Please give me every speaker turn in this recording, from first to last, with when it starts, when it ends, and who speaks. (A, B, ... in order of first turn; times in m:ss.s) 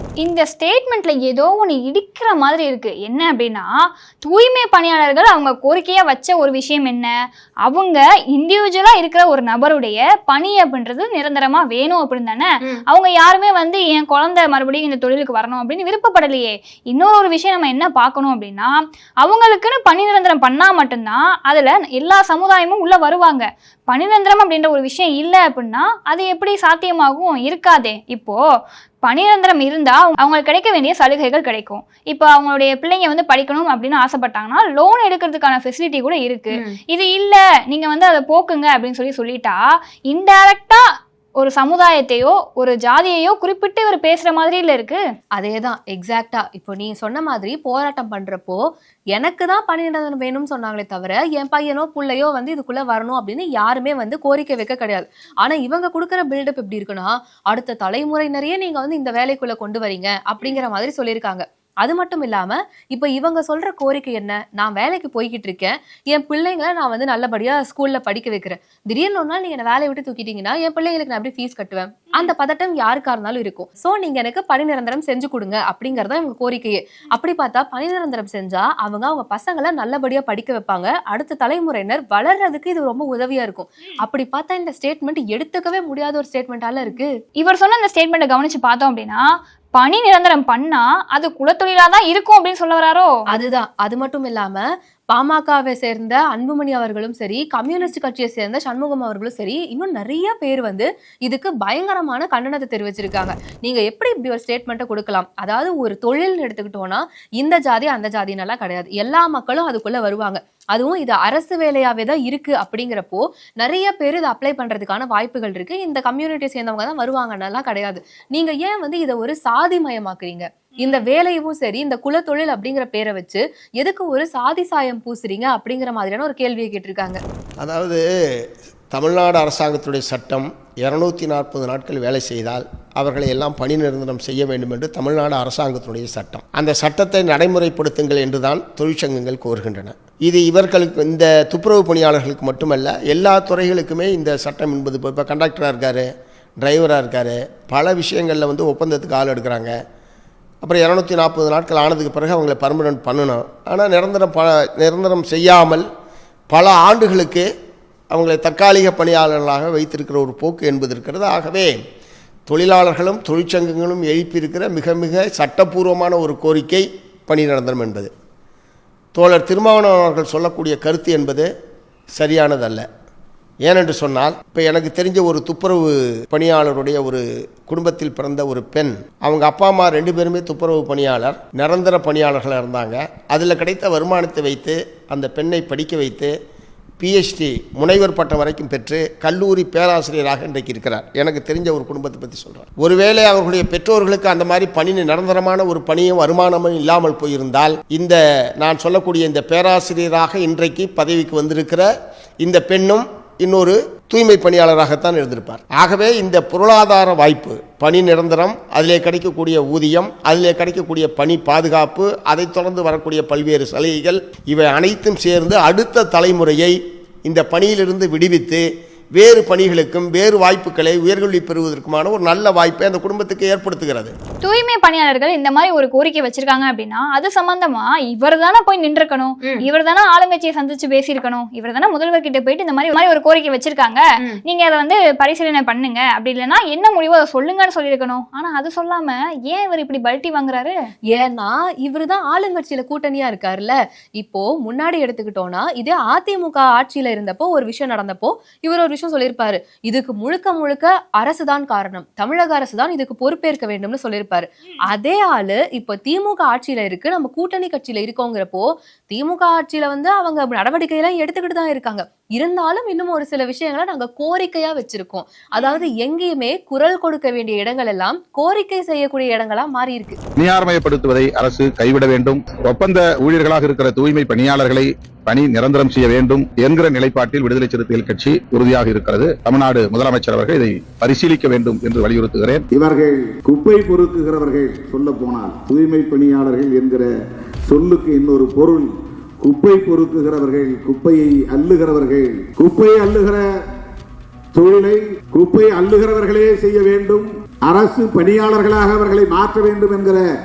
0:00.2-0:03.7 A
0:04.2-0:07.1 A
0:07.6-0:28.4 A
0:29.0-0:39.6 A
0:40.1-0:40.8 A
0:41.4-0:45.0 A
0:45.3-0:48.6 B
0:49.1-1:27.1 B
1:27.4-1:33.1 A
1:33.3-2:07.2 B
2:07.6-2:08.0 C
2:08.9-2:26.1 C
2:26.6-2:29.7 C
2:30.6-2:35.9 C
2:36.5-2:37.5 C
2:38.1-2:41.7 C
2:42.5-2:48.1 C
2:49.2-2:51.5 C
2:52.2-2:52.8 C
2:53.7-3:06.3 C
3:07.0-3:21.9 C
3:22.4-3:36.8 C
3:37.3-3:38.6 C
3:39.2-3:44.1 C
3:44.4-4:00.7 A
4:01.1-4:30.2 B
4:25.6-4:25.8 A
4:30.4-4:42.6 D
4:42.7-4:47.0 E
4:44.9-4:47.0 D
4:47.7-4:48.9 E
4:48.2-4:48.8 D
4:49.5-4:53.4 E
4:50.3-4:53.4 D
4:54.6-5:00.1 D
4:56.5-4:57.1 E
4:57.7-4:59.0 E